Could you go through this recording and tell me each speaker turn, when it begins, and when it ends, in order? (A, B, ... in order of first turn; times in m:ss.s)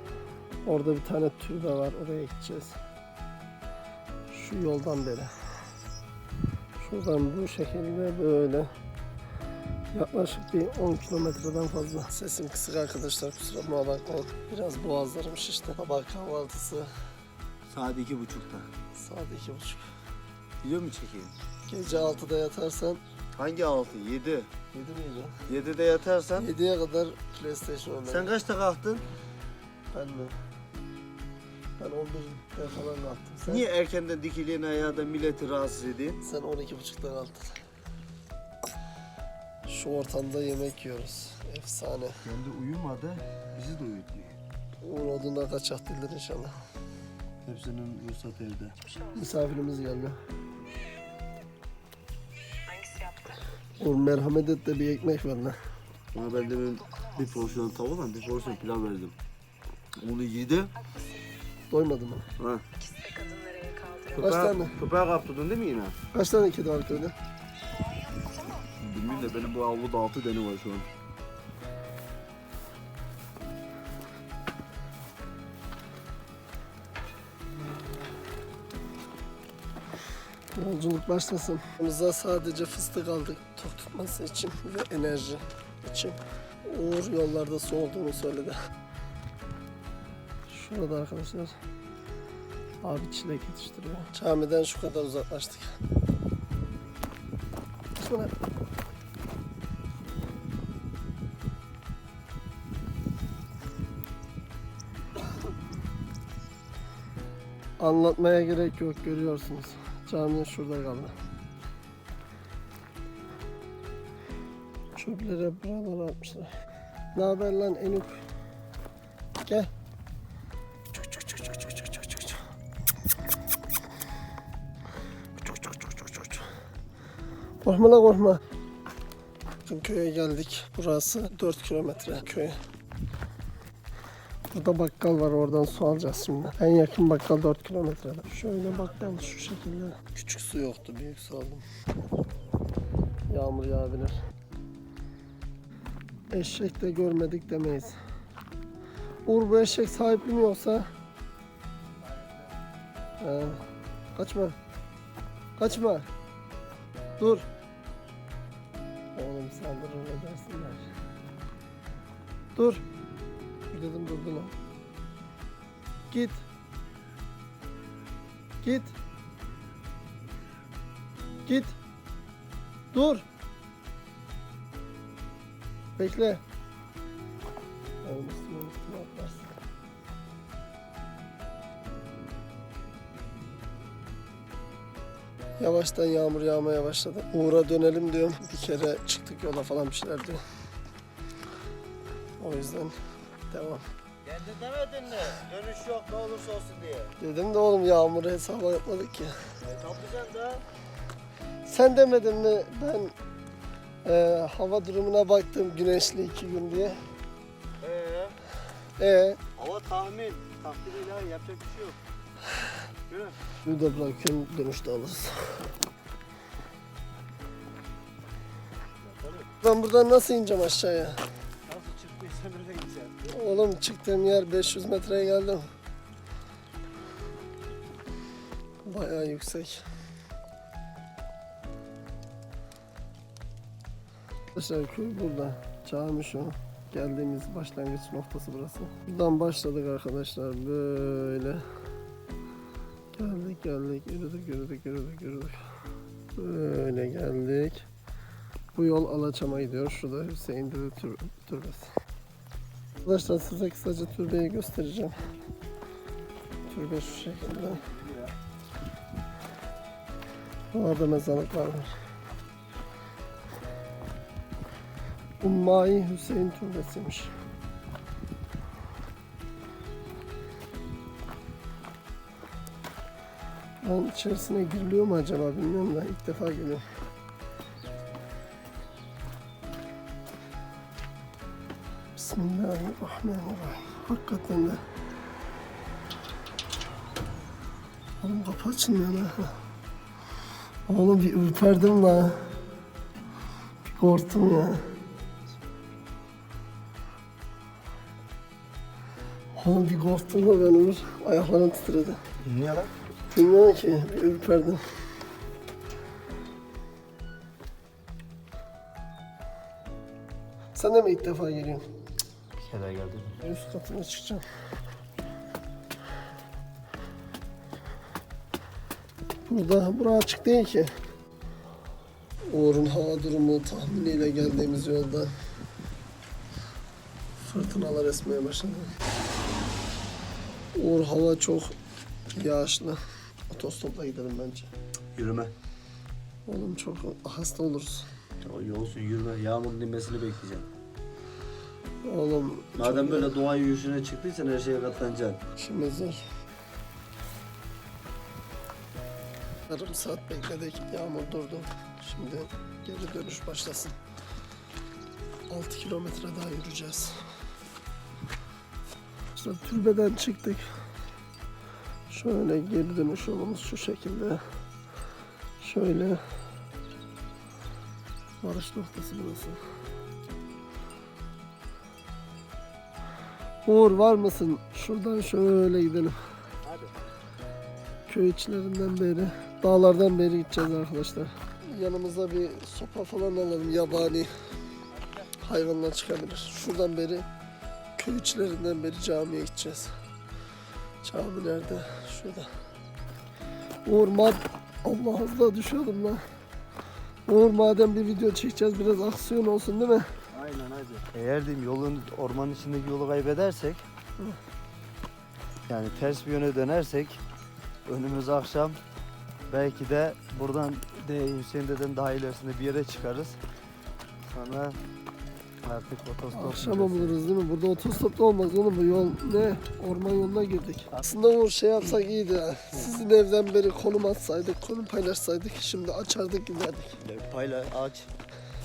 0:00.6-0:02.8 A
0:04.3-0:05.3 A
0:06.8-0:08.7 A
0:09.9-0:16.9 A
0:17.7-0:18.7 B
0:18.9-0:19.8 A
0:20.6-0:21.3 B
0:21.7-0:23.0 A
0:23.4-0:24.5 B
0:24.7-0:25.4 A
0:25.5-0:26.5 B
0:26.4-0:28.3 A
0:28.0-0:29.0 B
0:29.9-0:30.3 A
0:31.8-0:33.7 A
0:33.5-0:36.2 B
0:36.2-0:37.6 A
0:39.6-0:42.2 A
0:42.2-0:44.4 B
0:44.8-0:46.6 A
0:47.4-0:48.8 B
0:49.1-0:50.2 A
0:52.7-0:53.4 C
0:53.8-0:55.6 A
0:56.1-0:59.2 B
1:00.0-1:00.8 B
1:01.7-1:02.3 A
1:02.4-1:02.6 B
1:02.8-1:04.1 C
1:04.1-1:06.0 B
1:04.2-1:04.8 A
1:06.1-1:07.1 A
1:08.1-1:08.5 C
1:08.6-1:10.9 B
1:20.5-1:28.6 A
1:30.5-1:31.5 A
1:32.8-1:35.8 A
1:38.0-1:38.3 A
1:47.8-1:51.1 A
1:55.0-1:56.5 A
1:57.1-1:58.2 A
2:01.0-2:02.4 A
2:05.4-2:06.5 A
2:07.6-2:08.4 A
2:09.6-2:12.6 A
2:14.5-2:21.6 A
2:23.3-2:24.2 A
2:26.3-2:28.0 A
2:29.2-2:30.9 A
2:32.1-2:32.4 B
2:33.2-2:33.6 A
2:34.2-2:34.6 A
2:35.6-2:36.1 A
2:37.2-2:37.5 A
2:39.1-2:40.8 A
2:42.6-2:42.8 A
2:43.7-2:44.5 A
2:46.1-2:46.4 A
2:48.6-2:48.9 A
2:51.4-2:51.8 A
2:52.9-2:53.2 A
2:56.0-2:56.4 A
2:58.0-2:59.4 A
3:05.6-3:10.4 A
3:12.4-3:13.0 A
3:13.5-3:13.8 A
3:14.2-3:17.2 B
3:17.2-3:19.3 A
3:19.6-3:20.6 B
3:21.6-3:23.1 A
3:24.0-3:27.0 A
3:27.8-3:28.4 B
3:29.0-3:29.4 A
3:29.6-3:32.0 B
3:33.1-3:33.4 B
3:33.6-3:35.7 A
3:39.0-3:39.5 B
3:39.6-3:41.2 A
3:41.7-3:43.3 B
3:43.3-3:45.7 A
3:48.8-3:49.8 A
3:54.5-4:01.6 A
4:03.1-4:05.6 A
4:06.4-4:07.8 A
4:08.7-4:11.9 A
4:13.0-4:15.1 A
4:16.7-4:17.8 A
4:17.0-4:18.3 B
4:20.7-4:21.9 A
4:25.4-4:27.3 A
4:33.8-4:36.8 A
4:42.2-4:44.8 A
4:48.2-4:49.6 A
4:50.9-4:52.5 A
4:53.9-4:54.9 A
4:59.6-5:02.2 A
5:02.4-5:02.9 B
5:03.3-5:04.8 A
5:10.7-5:11.8 A
5:12.6-5:13.4 B
5:13.4-5:14.4 A
5:19.5-5:20.9 A
5:22.5-5:25.3 A
5:27.4-5:28.9 A
5:30.7-5:31.7 A
5:32.3-5:34.7 A
5:35.1-5:35.5 B
5:36.5-5:38.1 A
5:38.4-5:40.7 B
5:42.0-5:43.3 A
5:42.8-5:45.4 B
5:45.6-5:46.2 A
5:49.7-5:54.0 A
5:55.5-5:57.2 A
5:59.3-6:00.7 A
6:02.1-6:04.4 A
6:05.6-6:06.2 A
6:08.4-6:09.6 A
6:13.6-6:16.2 A
6:16.6-6:16.9 B
6:18.1-6:24.3 A
6:24.9-6:25.3 B
6:25.4-6:27.3 A
6:28.0-6:29.9 A
6:31.0-6:32.5 A
6:33.8-6:36.2 A
6:37.3-6:40.1 A
6:40.3-6:43.8 B
6:45.7-6:47.2 B
6:47.9-6:48.8 B
6:49.5-6:53.4 B
6:54.2-6:54.8 B
6:55.6-6:57.2 B
6:56.3-7:07.0 A
7:07.0-7:08.1 B